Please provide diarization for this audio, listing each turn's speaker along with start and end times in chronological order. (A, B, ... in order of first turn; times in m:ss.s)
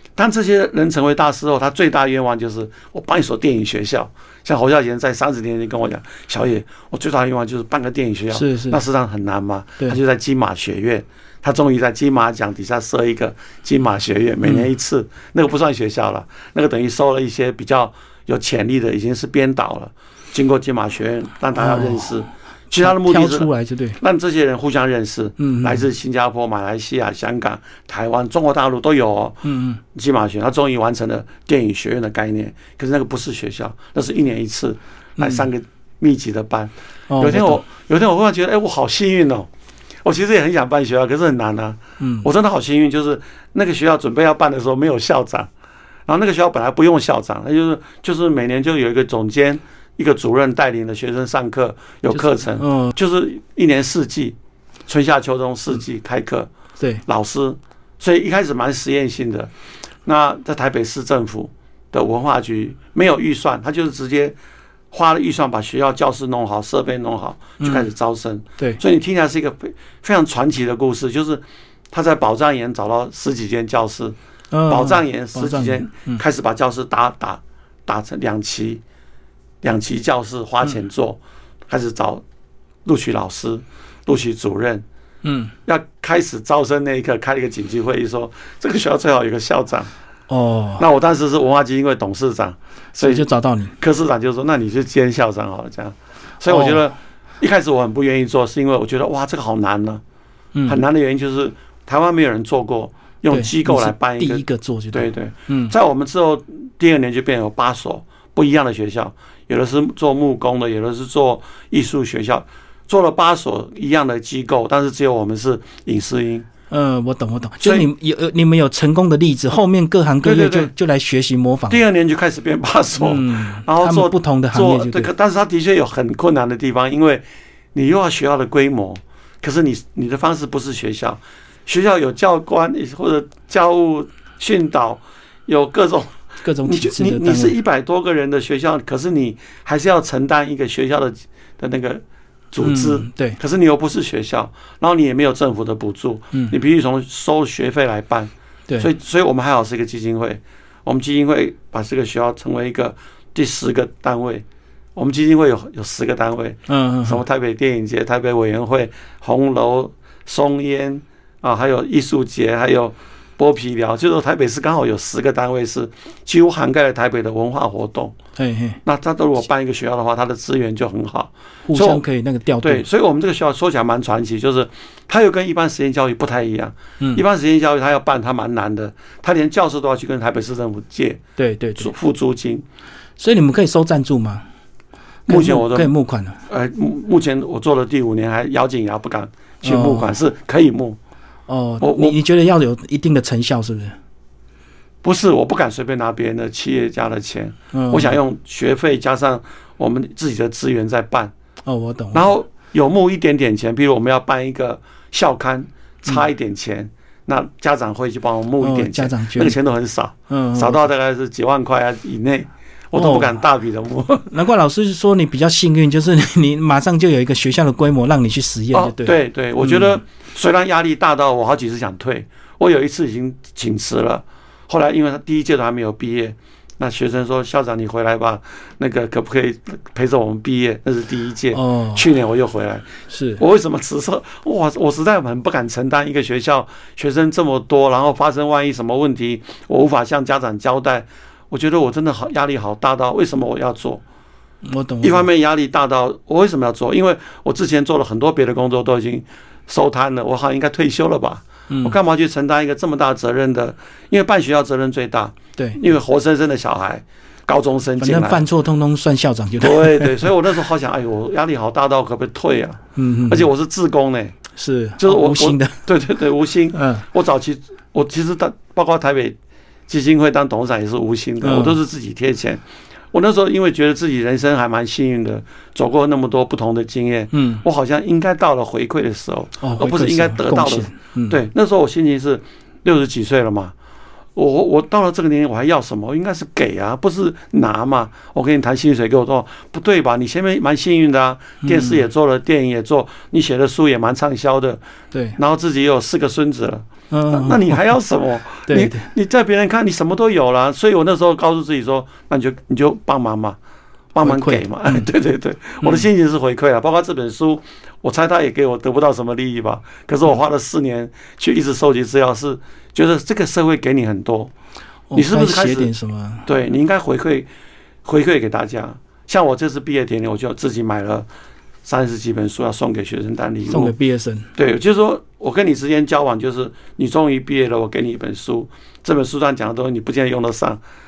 0:00.2-0:39.5 A
0:08.3-0:08.8 B
0:21.6-0:22.1 B
0:22.7-0:24.0 B
0:25.4-0:25.8 B
0:29.4-0:29.8 B
0:35.2-0:35.4 B
0:37.1-0:37.6 B
0:40.0-0:45.5 A
0:42.0-0:42.3 B
0:46.1-0:54.4 A
0:52.1-0:52.9 B
0:54.9-0:56.5 A
0:57.0-0:59.5 A
1:00.0-1:04.4 A
1:04.9-1:14.2 A
1:07.6-1:07.9 B
1:14.5-1:16.2 B
1:14.7-1:18.8 A
1:19.6-1:22.2 A
1:22.8-1:24.8 A
1:25.2-1:25.5 B
1:25.6-1:29.9 A
1:30.3-1:30.8 B
1:30.8-1:33.3 A
1:33.0-1:33.7 B
1:33.8-1:40.0 A
1:36.5-1:36.8 B
1:40.7-1:56.5 A
1:43.3-1:45.7 B
1:56.7-2:01.8 B
1:57.6-1:57.9 A
2:00.2-2:00.7 A
2:01.7-2:07.2 A
2:03.0-2:05.1 B
2:07.7-2:48.1 A
2:16.4-2:17.5 B
2:22.6-2:23.4 B
2:36.7-2:37.2 B
2:48.4-2:48.8 B
2:48.8-2:52.0 A
2:51.7-2:52.8 B
2:52.6-3:01.2 A
3:01.4-3:01.9 B
3:01.8-3:02.6 A
3:03.2-3:04.4 B
3:05.3-3:06.4 B
3:05.3-3:05.9 A
3:06.5-3:11.0 A
3:09.6-3:10.1 B
3:11.5-3:14.0 B
3:11.8-3:12.2 A
3:15.0-3:21.3 A
3:17.7-3:18.2 B
3:21.6-3:22.3 B
3:22.1-3:34.3 A
3:28.6-3:29.5 B
3:30.3-3:30.8 B
3:32.9-3:33.4 B
3:34.3-3:40.0 B
3:38.7-4:04.0 A
3:51.5-3:52.0 B
3:53.1-3:53.4 B
4:04.6-4:05.2 B
4:05.0-4:18.4 A
4:11.7-4:12.0 B
4:18.0-4:20.3 B
4:19.6-4:24.4 A
4:23.0-4:23.5 B
4:24.6-4:25.8 B
4:25.0-4:29.4 A
4:26.7-4:27.0 B
4:29.9-4:43.7 A
4:31.4-4:31.8 B
4:37.3-4:37.6 B
4:39.6-4:41.4 B
4:44.3-4:54.8 A
4:51.6-4:52.0 B
4:55.1-4:55.4 B
4:55.4-5:03.6 A
4:57.1-4:57.8 B
4:58.7-4:59.1 B
5:04.1-5:14.5 A
5:04.2-5:05.1 B
5:15.1-5:16.5 B
5:15.1-5:15.9 A
5:16.4-5:17.5 A
5:18.0-5:21.3 A
5:21.8-5:23.9 A
5:23.7-5:24.5 B
5:24.5-5:30.8 A